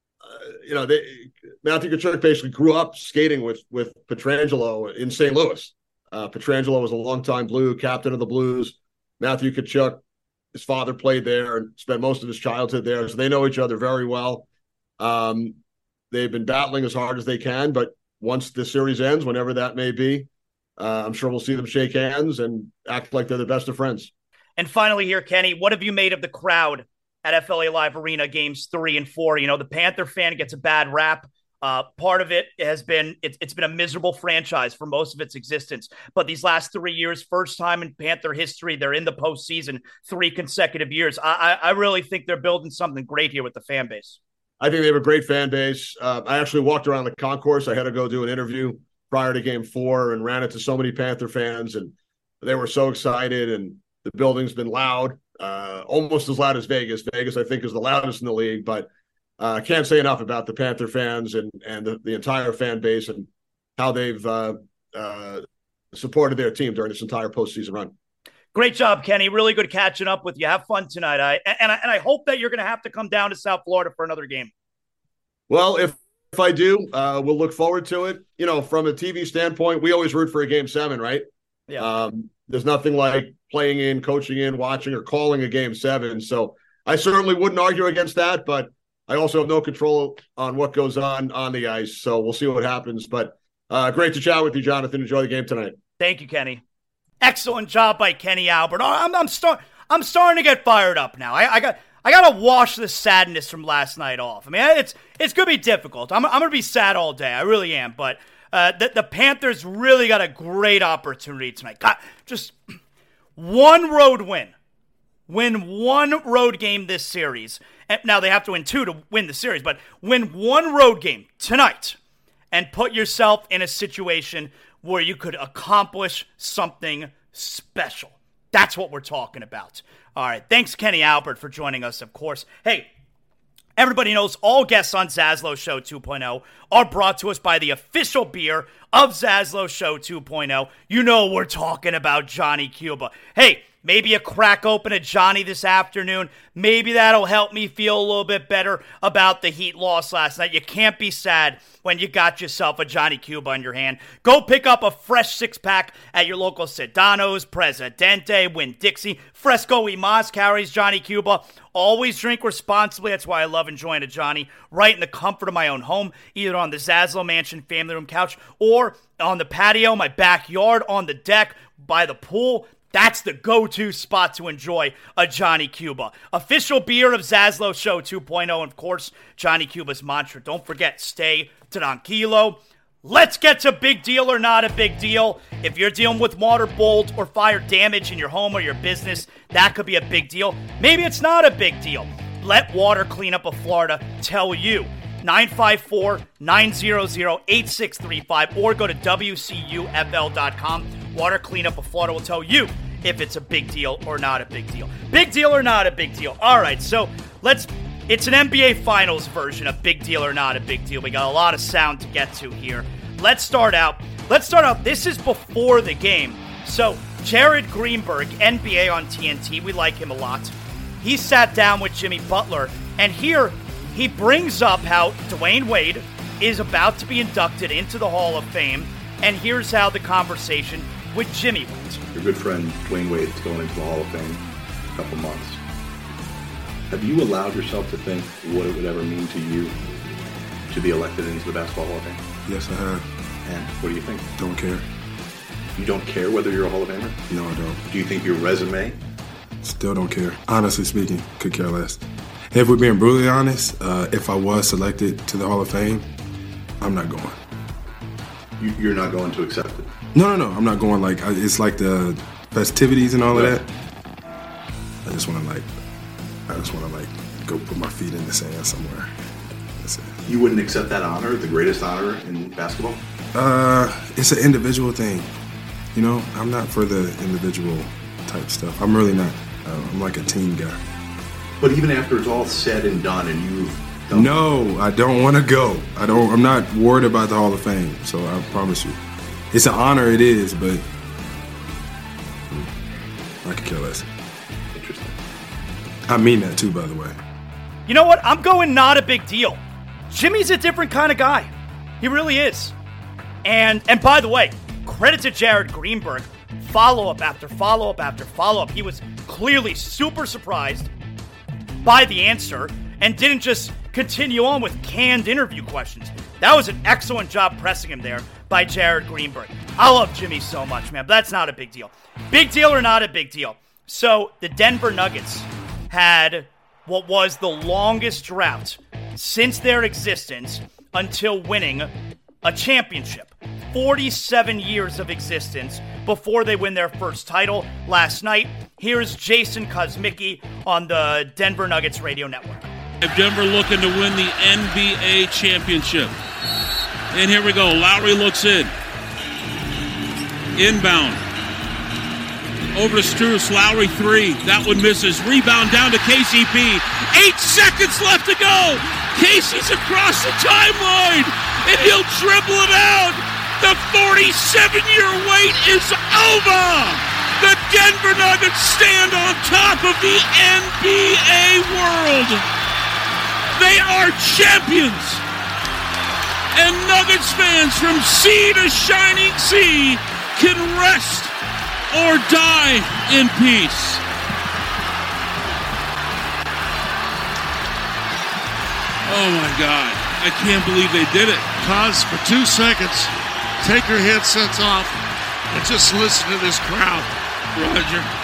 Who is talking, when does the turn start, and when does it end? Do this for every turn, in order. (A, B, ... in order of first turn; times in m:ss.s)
0:00.3-0:10.0 A
0:10.5-0:14.5 A
0:15.0-0:15.6 A
0:16.1-0:24.1 A
0:24.6-0:44.2 B
0:44.6-0:58.9 A
0:59.4-1:07.9 A
1:08.5-1:14.5 B
1:15.5-1:21.2 A
1:21.8-1:35.8 A
1:36.0-1:36.6 B
1:37.2-1:52.6 B
1:53.4-1:54.5 B
1:55.3-2:02.0 B
2:02.5-2:12.9 B
2:13.8-3:52.0 B
3:52.1-3:55.6 C
3:56.9-3:59.8 C
4:00.7-4:02.2 C
4:02.5-4:03.1 D
4:03.4-4:04.3 C
4:04.4-4:04.9 D
4:05.8-4:07.2 C
4:07.3-4:07.8 D
4:07.9-4:09.0 C
4:09.6-4:16.1 D
4:16.8-4:17.4 D
4:18.6-4:19.9 C
4:20.1-4:23.7 D
4:25.0-4:25.7 D
4:26.5-4:29.1 D
4:29.8-4:30.2 D
4:30.3-4:33.0 C
4:33.3-4:35.3 D
4:35.9-4:40.8 D
4:41.6-4:44.3 C
4:44.1-4:49.0 D
4:49.5-4:50.8 D
4:53.4-4:54.1 D
4:54.7-4:55.2 C
4:56.1-4:57.2 D
4:57.9-5:01.5 B
5:02.0-5:02.7 B
5:03.4-5:10.9 B
5:11.8-5:31.9 B
5:32.4-5:42.7 B
5:43.0-5:46.1 E
5:47.1-5:48.7 E
5:50.6-5:51.2 E
5:52.7-6:12.4 E
6:13.6-6:15.2 E
6:16.5-6:21.3 E
6:21.9-6:24.0 E
6:29.1-6:31.5 E
6:31.6-6:37.1 F
6:37.6-6:38.0 E
6:37.8-6:38.1 F